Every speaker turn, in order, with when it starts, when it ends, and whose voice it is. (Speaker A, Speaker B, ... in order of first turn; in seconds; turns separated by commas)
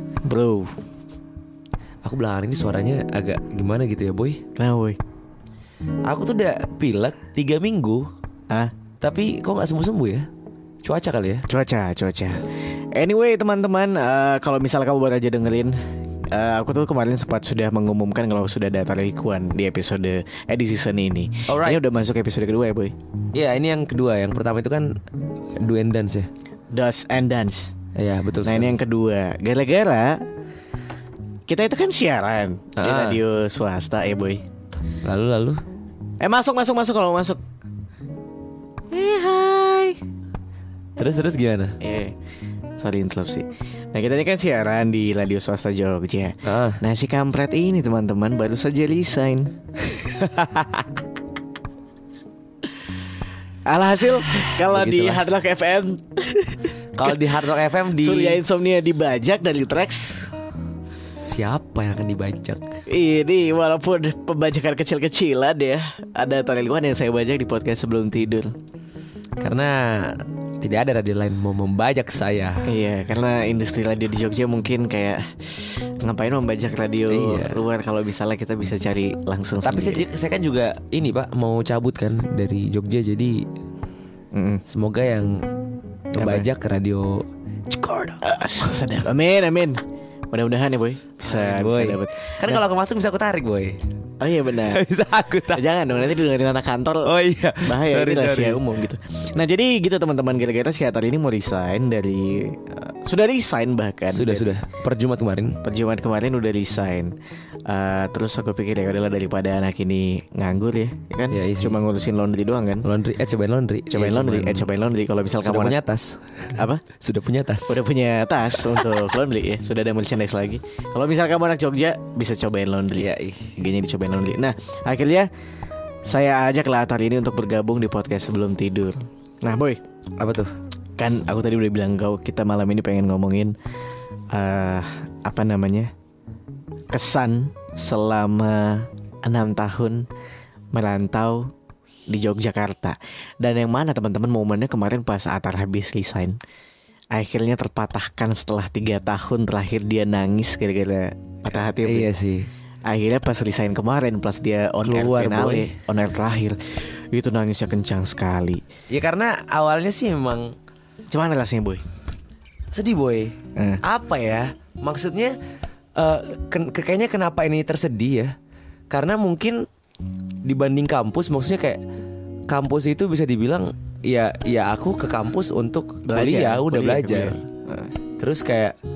Speaker A: 0.2-0.7, Speaker B: 2.0-4.4, Speaker A: 4.6-5.0, Speaker B: 6.0-8.1, Speaker B: 9.0-10.3, Speaker B: 10.8-11.4, Speaker A: 11.5-15.8, Speaker A: 16.3-22.9, Speaker B: 21.5-21.8, Speaker B: 23.3-24.9, Speaker B: 25.6-26.3, Speaker A: 26.7-27.7, Speaker B: 27.9-28.8, Speaker A: 28.4-30.2, Speaker A: 31.5-34.4, Speaker B: 32.8-33.2, Speaker B: 35.0-35.6, Speaker A: 36.2-37.4, Speaker A: 38.9-40.0, Speaker B: 41.0-41.8, Speaker A: 41.8-42.1, Speaker A: 42.8-49.5, Speaker B: 46.4-46.8, Speaker B: 49.8-51.0, Speaker A: 53.6-57.3, Speaker B: 54.3-55.2, Speaker B: 56.9-58.4, Speaker A: 57.9-60.3, Speaker B: 61.2-62.7, Speaker A: 62.9-68.5, Speaker B: 69.4-72.7, Speaker A: 72.6-80.0, Speaker B: 77.1-77.6, Speaker B: 79.6-83.4, Speaker A: 84.3-84.6, Speaker B: 84.7-85.5, Speaker B: 86.1-88.2, Speaker A: 86.2-86.5, Speaker A: 88.2-89.8, Speaker A: 90.3-92.6, Speaker B: 91.2-93.8, Speaker A: 94.2-94.8, Speaker B: 94.6-95.6, Speaker A: 95.5-104.5, Speaker B: 97.0-98.6, Speaker B: 104.1-105.6, Speaker A: 105.6-107.1, Speaker A: 107.7-112.8, Speaker B: 111.3-111.8, Speaker B: 112.8-114.7, Speaker A: 113.9-115.8, Speaker B: 115.4-117.8, Speaker A: 116.5-116.8, Speaker A: 117.7-125.3, Speaker B: 122.9-123.5, Speaker A: 126.0-129.8, Speaker B: 130.2-130.5, Speaker A: 131.0-133.5, Speaker A: 134.3-135.9, Speaker A: 136.9-140.1, Speaker A: 140.7-141.5, Speaker A: 142.1-146.4, Speaker A: 147.1-152.1, Speaker B: 151.4-152.5, Speaker A: 152.8-158.6, Speaker B: 154.8-155.7, Speaker B: 158.9-160.6, Speaker A: 161.1-161.8, Speaker B: 162.7-165.4, Speaker A: 163.6-163.8, Speaker B: 165.9-168.3, Speaker B: 168.9-169.7, Speaker B: 170.4-171.8, Speaker B: 172.5-177.4, Speaker A: 176.1-177.9, Speaker B: 178.2-178.8